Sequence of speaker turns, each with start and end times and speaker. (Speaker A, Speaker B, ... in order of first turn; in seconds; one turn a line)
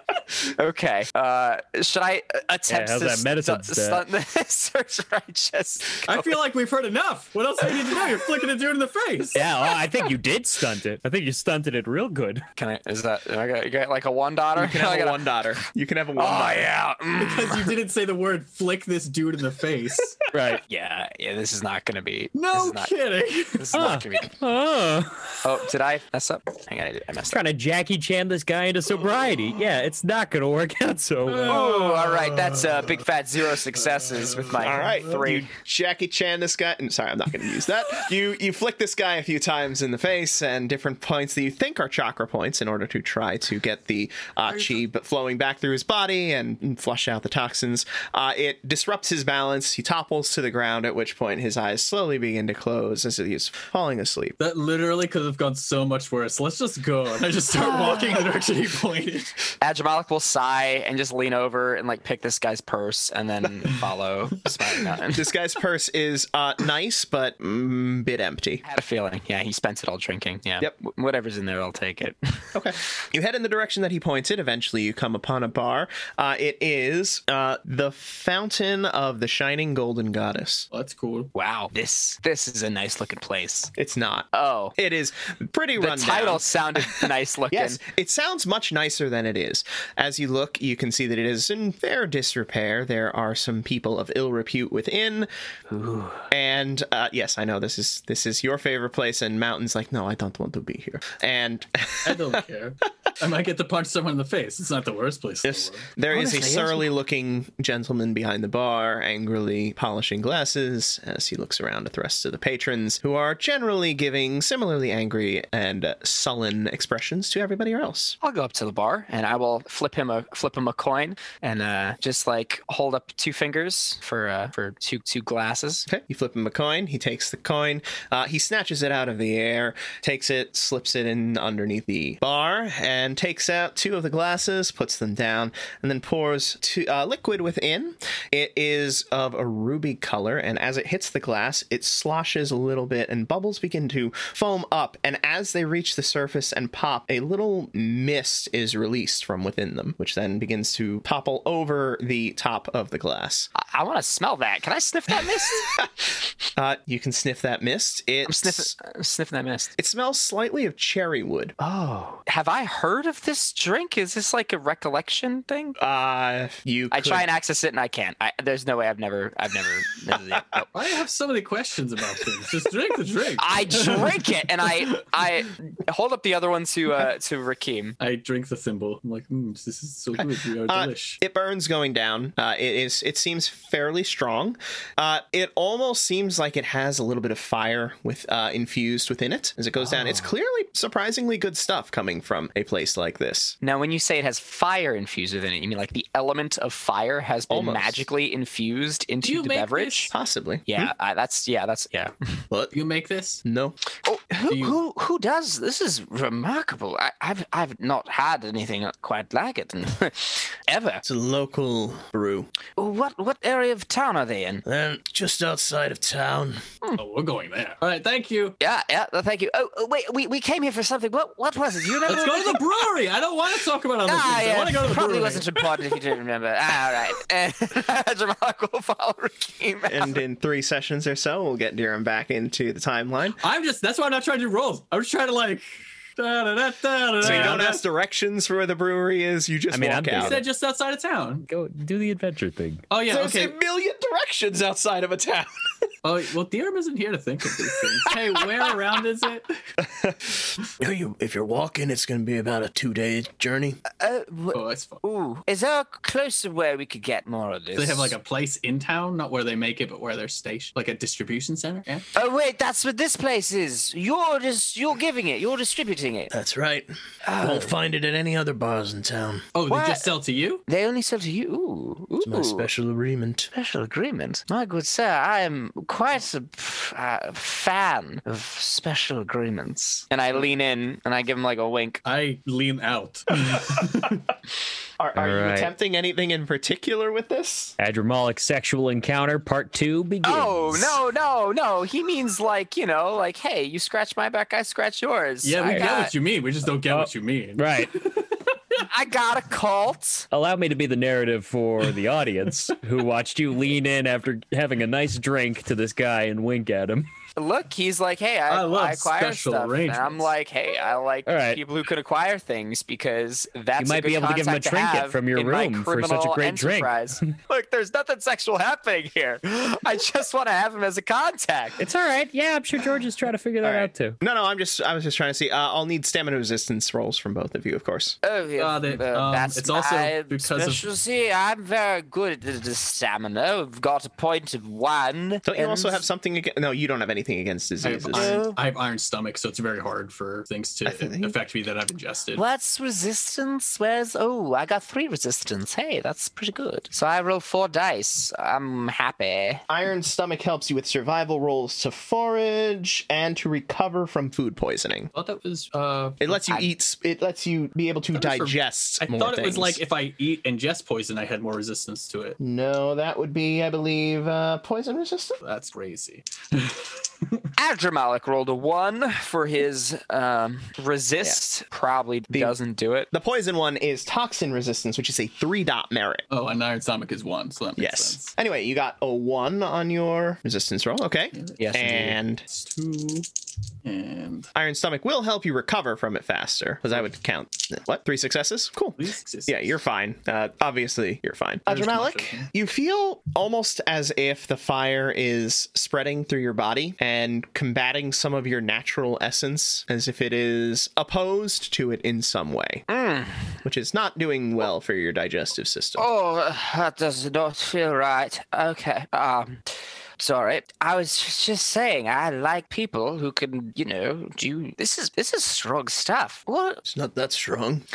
Speaker A: 0.5-6.2
Speaker B: 2.7-4.0
Speaker C: 6.0-9.4
Speaker B: 9.3-12.4
Speaker A: 12.6-15.3
Speaker D: 14.6-16.7
Speaker A: 16.2-17.7
Speaker C: 17.2-20.2
Speaker B: 20.3-20.6
Speaker A: 20.7-22.9
Speaker C: 22.4-23.7
Speaker A: 23.5-24.4
Speaker B: 23.7-25.4
Speaker A: 25.4-27.4
Speaker B: 27.3-31.6
Speaker C: 31.3-33.0
Speaker A: 31.5-35.5
Speaker C: 33.7-35.0
Speaker D: 34.6-54.4
Speaker C: 44.5-44.8
Speaker C: 54.4-59.3
Speaker A: 57.6-58.4
Speaker A: 59.6-65.2
Speaker D: 65.1-68.6
Speaker A: 68.6-72.5
Speaker D: 72.5-80.7
Speaker C: 80.7-81.3
Speaker A: 81.3-83.7
Speaker D: 83.8-95.3
Speaker A: 84.3-84.7
Speaker A: 85.8-87.8
Speaker A: 95.7-96.3
Speaker D: 96.3-102.4
Speaker C: 102.0-105.9
Speaker D: 105.4-118.2
Speaker A: 106.1-106.9
Speaker A: 118.2-125.9
Speaker D: 125.9-153.5
Speaker A: 153.6-155.8
Speaker D: 155.2-158.7
Speaker A: 158.2-159.7
Speaker D: 159.8-161.5
Speaker A: 161.6-165.8
Speaker D: 165.8-167.3
Speaker A: 166.9-170.7
Speaker D: 170.3-170.6
Speaker C: 170.7-174.9
Speaker A: 173.4-178.0
Speaker C: 178.0-181.2
Speaker D: 180.2-193.6
Speaker A: 193.6-200.1
Speaker D: 197.5-198.0
Speaker C: 199.2-200.1
Speaker D: 200.1-200.9
Speaker A: 200.7-202.4
Speaker C: 202.7-203.4
Speaker D: 203.4-203.8
Speaker A: 204.0-211.0
Speaker C: 204.5-204.8
Speaker D: 211.0-212.5
Speaker A: 212.8-214.7
Speaker D: 214.7-216.6
Speaker C: 217.0-218.6
Speaker A: 218.6-222.6
Speaker C: 222.1-225.9
Speaker A: 224.1-230.2
Speaker D: 229.9-233.4
Speaker C: 233.4-235.7
Speaker C: 236.2-237.8
Speaker D: 237.2-240.4
Speaker B: 239.7-240.4
Speaker C: 240.2-241.5
Speaker B: 241.5-242.8
Speaker C: 242.9-243.6
Speaker D: 243.1-245.9
Speaker C: 246.0-249.6
Speaker D: 247.6-248.7
Speaker D: 249.8-253.8
Speaker A: 253.9-258.2
Speaker C: 254.5-255.0
Speaker C: 257.8-262.1
Speaker A: 262.1-266.3
Speaker D: 266.3-269.4
Speaker A: 267.2-267.8
Speaker C: 269.6-270.6
Speaker A: 269.7-270.1
Speaker A: 270.7-272.7
Speaker D: 272.2-273.5
Speaker A: 273.5-282.0
Speaker C: 282.1-284.2
Speaker D: 283.5-283.8
Speaker D: 285.0-287.8
Speaker B: 285.2-285.7
Speaker B: 287.8-291.0
Speaker A: 290.2-296.1
Speaker C: 295.4-298.4
Speaker B: 296.9-297.9
Speaker A: 298.8-300.3
Speaker B: 300.3-307.1
Speaker A: 307.4-321.8
Speaker C: 308.5-310.3
Speaker B: 311.3-311.6
Speaker B: 313.8-317.3
Speaker B: 321.8-324.2
Speaker D: 323.6-328.2
Speaker A: 328.2-336.0
Speaker C: 328.6-330.9
Speaker D: 335.4-338.4
Speaker C: 337.8-342.4
Speaker A: 338.1-338.6
Speaker D: 340.9-341.4
Speaker A: 342.4-349.6
Speaker D: 349.7-355.1
Speaker C: 355.1-356.4
Speaker D: 356.2-359.8
Speaker C: 358.1-362.4
Speaker D: 362.4-365.4
Speaker C: 365.4-367.4
Speaker A: 367.6-373.1
Speaker D: 372.3-372.6
Speaker D: 373.1-376.2
Speaker C: 376.3-378.3
Speaker D: 377.8-382.4
Speaker C: 381.3-383.3
Speaker A: 381.6-382.1
Speaker C: 383.8-384.5
Speaker D: 384.6-402.9
Speaker C: 389.0-389.8
Speaker C: 391.7-392.5
Speaker A: 402.9-403.6
Speaker D: 403.6-406.1
Speaker A: 406.0-409.6
Speaker A: 410.2-416.8
Speaker D: 416.9-417.9